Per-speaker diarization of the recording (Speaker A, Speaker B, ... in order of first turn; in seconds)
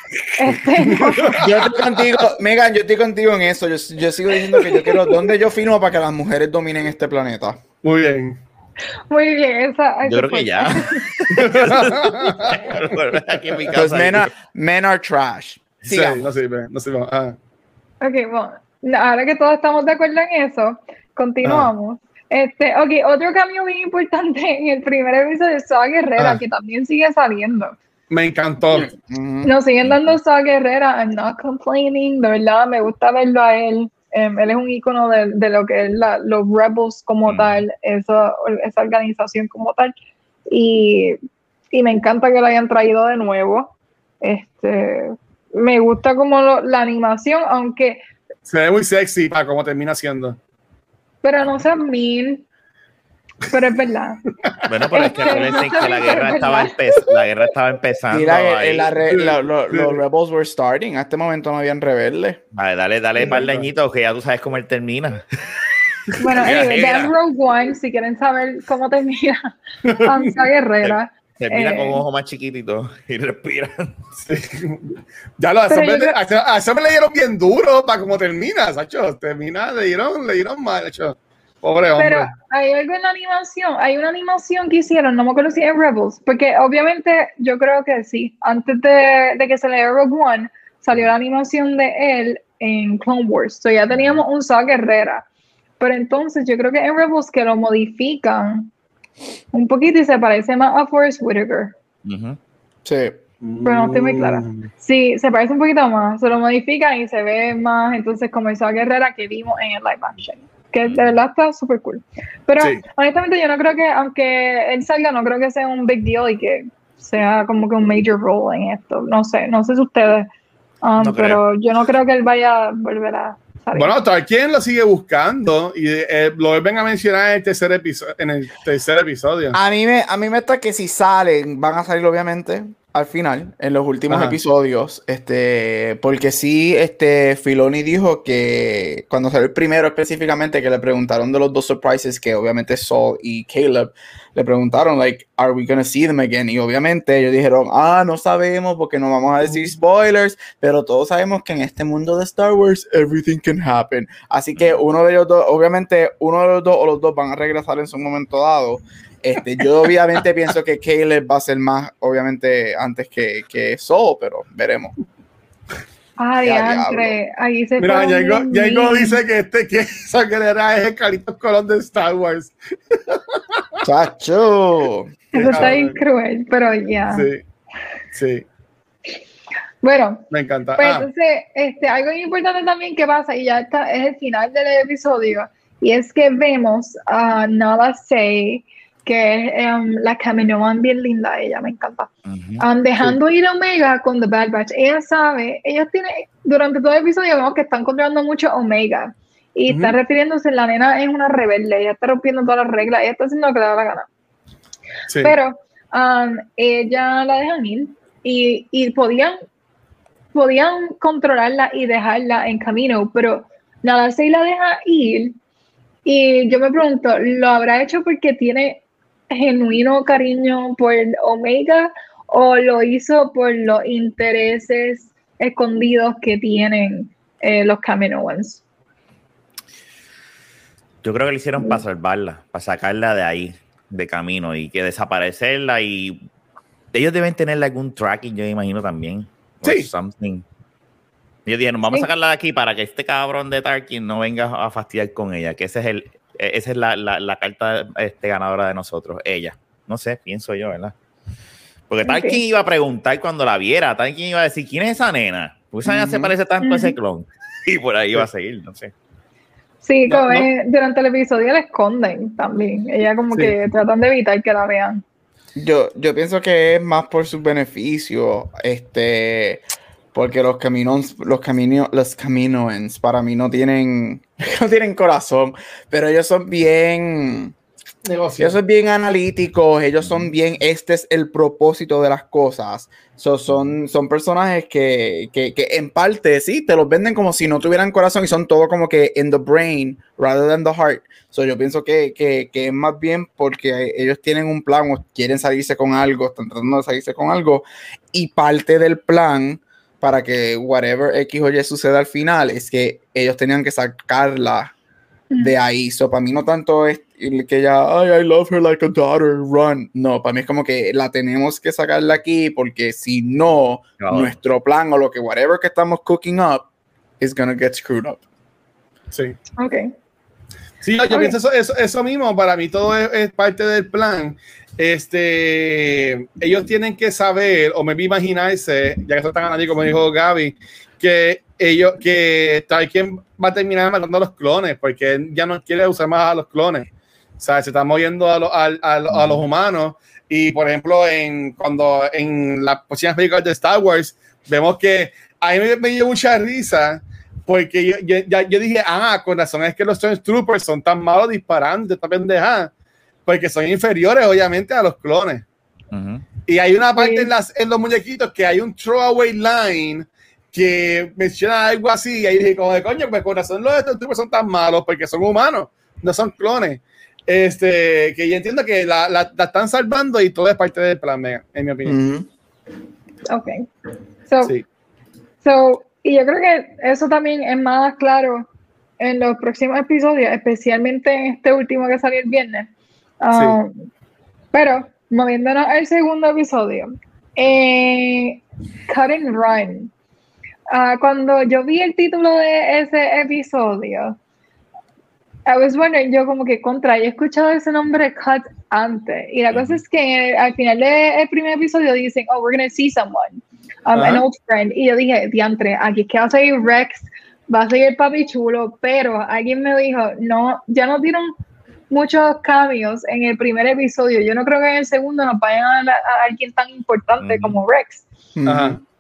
Speaker A: 0.4-1.4, 4.7-5.0, 9.1-11.1, 18.0-27.8, 29.4-40.0, 40.5-41.2, 41.7-48.0, 51.2-52.5, 53.5-54.2, 54.9-56.7, 66.2-72.0, 75.7-76.2, 82.0-95.2, 95.8-98.7, 99.5-101.7, 103.6-120.3, 120.8-124.0, 166.2-169.2, 175.3-177.3, 179.8-180.3, 180.8-204.1, 205.2-209.4, 210.3-215.4, 216.1-228.6, 252.1-252.4, 256.6-257.0, 259.8-265.0, 319.6-319.9, 321.1-321.4, 356.9-357.3, 373.3-373.7, 374.3-374.5, 375.4-378.5, 379.0-382.7, 383.2-383.9, 384.5-389.9, 390.7-394.2, 395.5-411.3, 411.9-418.0
Speaker B: 0.8-1.4, 7.8-8.4, 11.3-13.7, 15.9-17.4, 21.4-21.7, 26.2-26.4, 28.1-28.9, 48.5-50.4, 55.0-55.9, 59.1-60.0, 63.2-63.7, 69.8-70.3, 74.2-82.3, 103.4-104.7, 123.8-129.6, 134.1-134.4, 167.8-173.6, 175.3-176.0, 177.1-177.4, 178.1-178.5, 180.3-181.1, 199.7-200.0, 205.1-205.4, 239.6-239.9, 260.1-260.5, 278.0-278.6, 320.8-352.7, 353.3-355.4, 356.5-372.0, 383.3-383.6, 403.9-404.2, 418.5-418.8
Speaker C: 1.4-7.6, 13.7-16.2, 28.7-29.5, 58.1-62.4, 102.8-103.2, 129.5-164.9, 166.4-167.1, 173.8-175.7, 255.8-256.3, 265.6-269.6, 270.1-277.6, 278.4-304.7, 305.4-316.7, 317.2-318.2, 371.9-372.3, 418.4-418.8
Speaker D: 10.1-14.3, 29.9-30.2, 37.3-37.6, 54.6-59.0, 62.5-67.1, 70.8-73.9, 93.9-94.2, 102.0-102.4, 121.0-121.4, 192.2-192.7, 231.0-236.2, 236.9-240.4, 241.5-250.9, 251.9-258.9, 280.1-280.3, 314.0-314.3, 339.1-339.4, 355.9-356.2, 399.5-399.8, 417.2-417.6